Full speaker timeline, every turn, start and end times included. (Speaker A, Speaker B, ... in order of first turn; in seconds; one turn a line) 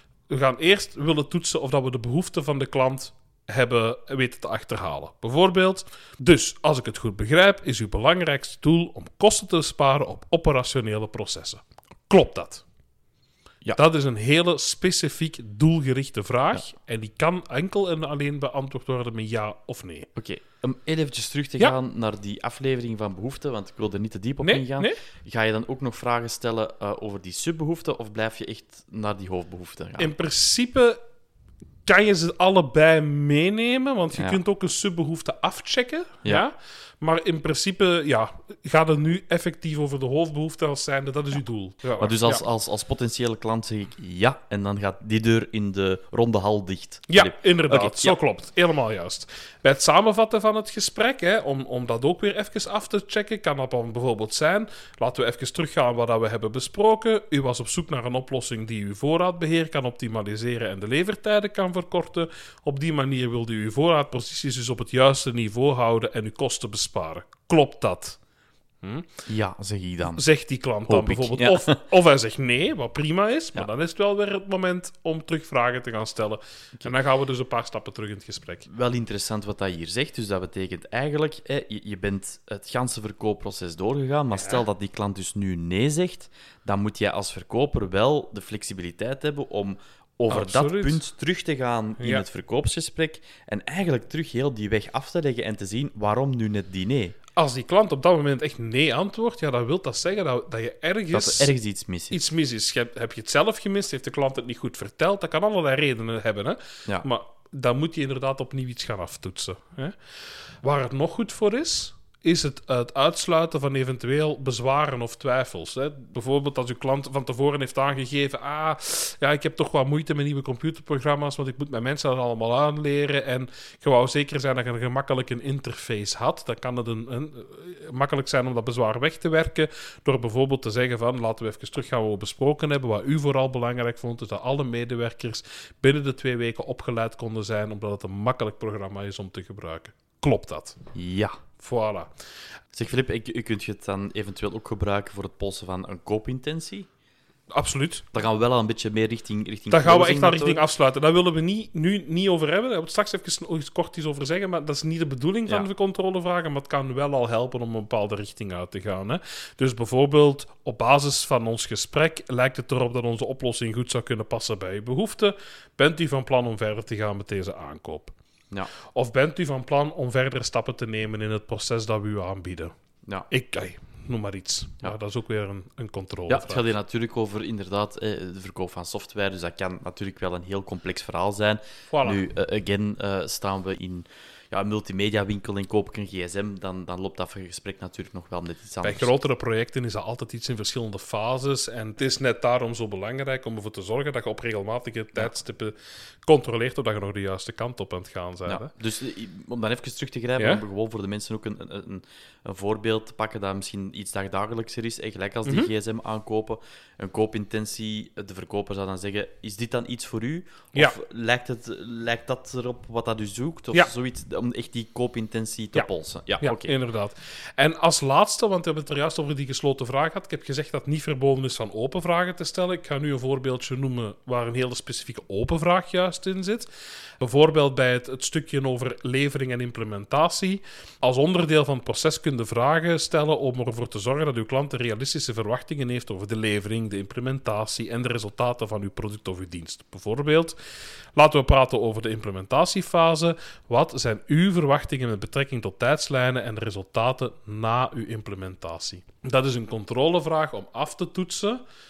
Speaker A: 0.3-12.6
Speaker A: 13.8-20.1
Speaker B: 20.2-30.1
Speaker A: 24.4-25.0
Speaker A: 30.0-31.0
Speaker A: 31.9-42.4
Speaker B: 42.0-48.2
Speaker A: 47.1-68.2
Speaker A: 68.8-69.1
Speaker B: 69.3-70.2
Speaker A: 70.1-78.7
Speaker B: 70.8-71.8
Speaker B: 78.7-97.2
Speaker A: 84.3-84.6
Speaker A: 90.3-91.0
Speaker A: 92.0-92.2
Speaker A: 97.4-101.5
Speaker B: 101.1-102.2
Speaker A: 102.1-110.0
Speaker A: 110.6-140.8
Speaker B: 140.9-141.4
Speaker A: 141.6-142.1
Speaker B: 142.7-146.9
Speaker A: 147.5-148.1
Speaker B: 148.1-150.6
Speaker A: 149.7-168.1
Speaker A: 168.9-172.7
Speaker A: 173.3-176.7
Speaker B: 176.3-189.1
Speaker A: 181.9-182.2
Speaker A: 188.8-198.7
Speaker B: 198.5-216.7
Speaker A: 200.4-200.6
Speaker A: 205.5-205.7
Speaker A: 216.4-240.6
Speaker A: 241.2-251.6